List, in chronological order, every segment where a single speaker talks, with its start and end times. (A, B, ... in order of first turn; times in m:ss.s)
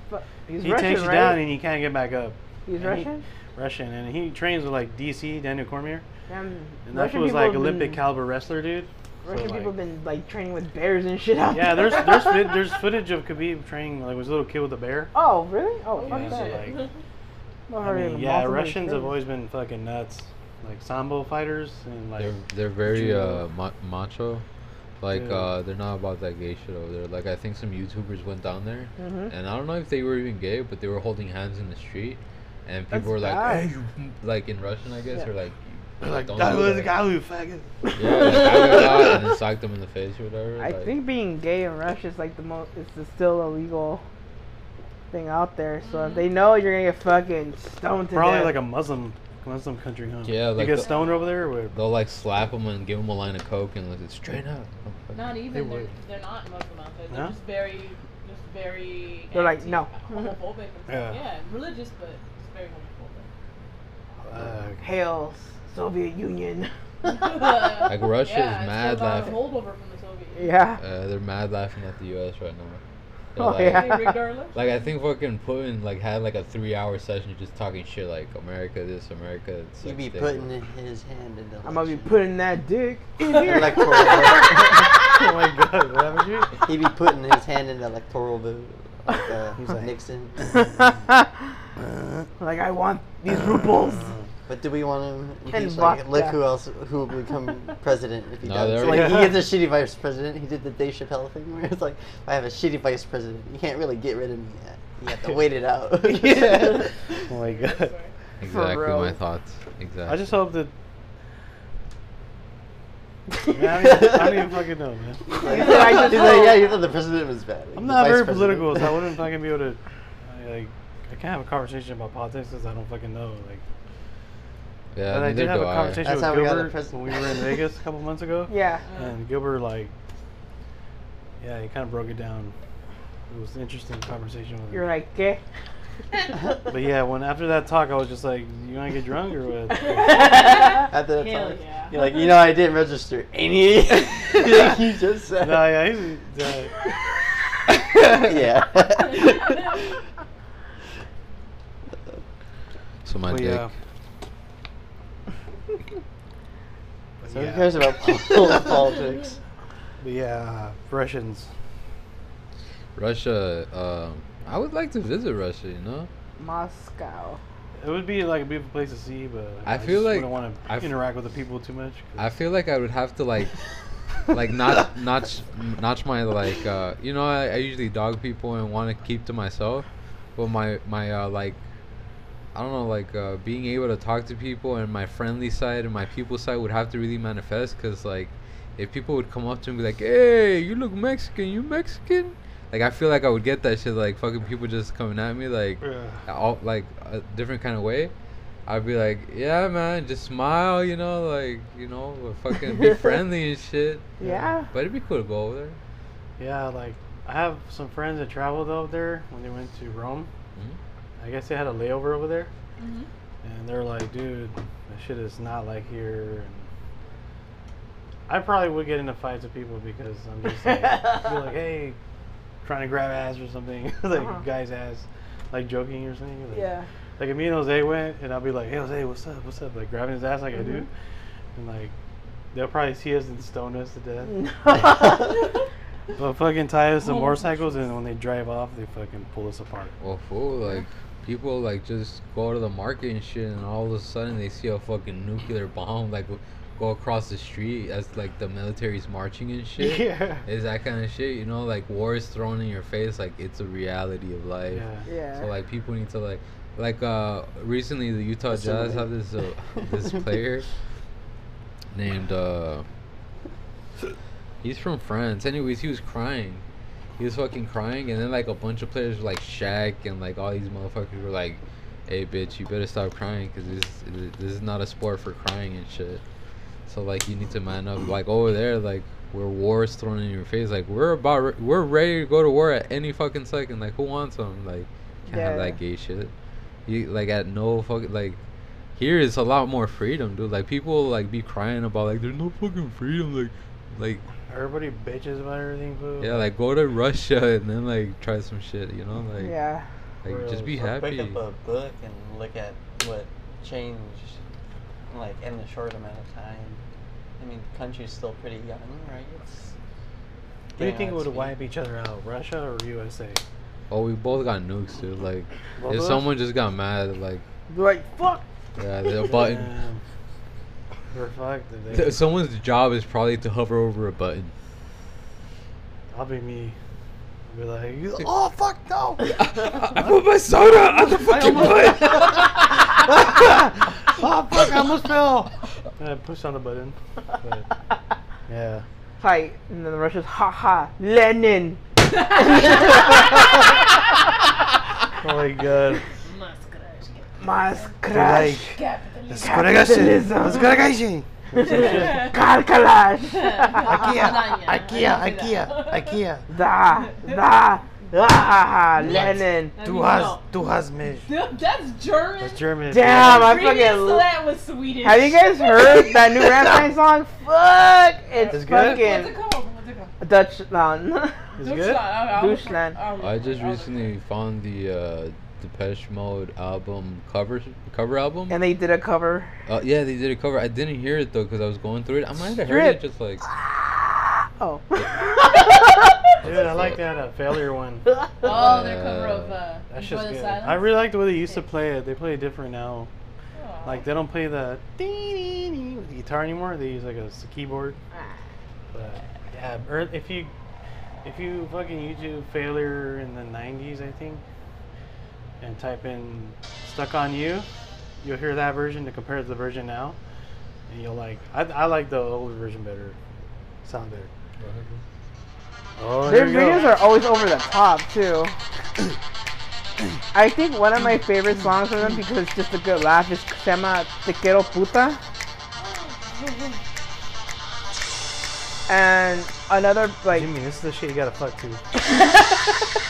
0:00.1-0:01.5 A
0:00.6-0:06.0 B
0:02.7-0:03.2 A
0:06.3-0:08.0 A
0:06.9-0:09.7 B
0:09.2-0:12.5 A
0:11.5-0:15.1 B
0:15.2-0:16.7 A
0:15.9-0:16.9 C
0:16.1-0:16.9 B
0:17.7-0:19.2 A
0:17.8-0:23.4 B
0:22.2-0:24.4 D
0:25.0-0:37.0 D
0:25.1-0:25.5 B
0:29.0-0:29.3 A
0:32.9-0:33.7 A
0:33.5-0:33.8 B
0:36.0-0:38.3 B
0:37.9-0:40.9 D
0:38.1-0:39.1 A
0:40.6-0:44.0 A
0:45.1-0:48.6 A
0:45.8-0:46.3 C
0:48.1-0:51.8 B
0:50.3-0:51.1 D
0:50.7-0:51.4 C
0:51.7-0:55.3 D
0:55.1-1:03.3 C
0:55.5-0:55.9 B
0:57.1-0:57.4 B
0:59.3-0:59.9 A
1:00.9-1:01.2 B
1:04.2-1:04.9 B
1:04.8-1:07.5 A
1:07.0-1:10.6 C
1:07.8-1:09.5 D
1:10.4-1:10.8 A
1:10.8-1:12.8 D
1:13.3-1:20.5 D
1:13.4-1:14.2 A
1:13.6-1:14.6 C
1:19.8-1:22.2 E
1:21.6-1:24.9 A
1:23.3-1:25.0 E
1:25.1-1:26.6 B
1:26.6-1:30.4 E
1:29.6-1:30.7 B
1:30.5-1:31.5 A
1:31.8-1:32.3 B
1:32.4-1:34.1 A
1:33.9-1:34.3 B
1:34.5-1:46.9 E
1:35.5-1:36.4 A
1:38.4-1:39.3 D
1:38.8-1:39.4 B
1:46.0-1:48.0 B
1:47.3-1:48.1 C
1:48.4-1:50.3 D
1:48.4-1:49.2 A
1:50.1-1:50.7 B
1:53.5-1:55.3 B
1:53.8-1:54.5 E
1:55.3-1:58.9 E
1:55.4-1:56.7 C
1:55.4-1:56.6 A
1:57.8-2:03.6 B
2:04.9-2:06.0 D
2:05.1-2:09.9 B
2:06.0-2:07.6 E
2:08.5-2:08.8 A
2:08.9-2:09.2 C
2:11.4-2:12.5 B
2:13.3-2:14.9 B
2:14.7-2:15.4 A
2:16.7-2:20.3 B
2:19.7-2:22.3 C
2:20.5-2:25.8 E
2:25.4-2:26.7 B
2:28.0-2:29.9 E
2:29.0-2:29.8 C
2:33.0-2:33.7 D
2:33.3-2:33.7 B
2:37.2-2:37.9 B
2:37.3-2:39.4 E
2:40.0-2:41.5 B
2:43.0-2:46.1 D
2:46.4-2:47.4 A
2:47.8-2:52.3 B
2:49.7-2:51.0 D
2:52.2-2:53.6 D
2:54.3-3:01.6 D
3:02.5-3:18.1 D
3:15.8-3:16.3 B
3:18.7-3:24.1 D
3:22.7-3:23.2 A
3:24.2-3:24.7 A
3:24.2-3:24.6 B
3:24.7-3:25.8 D
3:26.4-3:30.3 B
3:31.2-3:32.5 B
3:32.8-3:33.1 C
3:33.4-3:36.7 B
3:38.3-3:42.0 B
3:40.7-3:41.2 A
3:42.6-3:46.7 B
3:44.2-3:44.4 A
3:46.6-3:46.8 C
3:46.6-3:46.8 A
3:47.2-3:50.9 B
3:51.6-3:51.9 B
3:52.5-3:54.4 B
3:54.3-3:55.3 A
3:56.2-3:59.9 B
3:57.0-3:57.9 C
4:00.0-4:20.7 D
4:09.8-4:10.4 B
4:14.7-4:15.1 B
4:15.1-4:15.5 A
4:18.5-4:19.1 E
4:19.8-4:20.2 E
4:21.9-4:22.8 D
4:24.6-4:26.6 D
4:27.2-4:36.2 D
4:36.9-4:46.3 D
4:45.3-4:45.8 A
4:46.9-4:48.4 D
4:49.0-4:54.2 D
4:54.5-4:56.5 B
4:56.2-4:59.6 D
4:59.4-4:59.9 A
5:00.2-5:01.4 D
5:00.2-5:00.8 B
5:00.7-5:04.4 E
5:05.1-5:06.8 E
5:07.4-5:09.7 E
5:10.8-5:11.6 E
5:10.8-5:13.4 B
5:13.9-5:17.4 D
5:15.8-5:16.3 B
5:17.7-5:18.4 A
5:18.8-5:19.7 D
5:19.3-5:20.0 B
5:21.1-5:22.2 B
5:21.9-5:24.5 D
5:26.1-5:26.8 B
5:27.5-5:29.3 B
5:29.3-5:32.7 D
5:31.2-5:37.7 B
5:38.5-5:38.8 B
5:39.2-5:43.3 A
5:42.1-5:43.2 C
5:45.2-5:46.0 B
5:46.2-5:49.8 C
5:47.4-5:48.6 A
5:48.1-5:52.4 B
5:49.4-5:50.8 A
5:51.6-5:52.4 C
5:51.8-5:54.0 A
5:53.2-5:56.2 C
5:53.8-5:56.5 B
5:56.5-5:59.8 A
5:56.9-5:57.4 C
5:59.0-6:00.4 C
5:59.0-6:01.3 B
6:01.2-6:06.8 C
6:02.4-6:03.7 B
6:02.9-6:04.3 A
6:05.0-6:09.4 A
6:08.3-6:10.2 C
6:08.5-6:09.3 B
6:10.2-6:11.4 A
6:11.6-6:12.1 B
6:11.6-6:14.2 C
6:12.2-6:13.0 A
6:13.2-6:18.6 D
6:18.5-6:19.5 A
6:19.7-6:23.4 D
6:22.6-6:26.1 A
6:26.4-6:27.0 D
6:26.4-6:28.1 B
6:28.4-6:31.6 C
6:28.4-6:29.5 D
6:29.9-6:33.1 B
6:33.6-6:34.1 C
6:33.8-6:38.0 B
6:38.9-6:40.5 B
6:41.2-6:44.4 B
6:45.6-6:47.7 B
6:48.2-6:50.2 B
6:50.9-6:53.2 B
6:53.8-6:54.3 B
6:54.6-6:55.0 D
6:56.0-6:56.9 B
6:56.3-6:58.5 A
7:00.3-7:05.2 A
7:05.8-7:06.8 C
7:08.9-7:10.5 A
7:10.3-7:11.8 B
7:12.4-7:12.7 A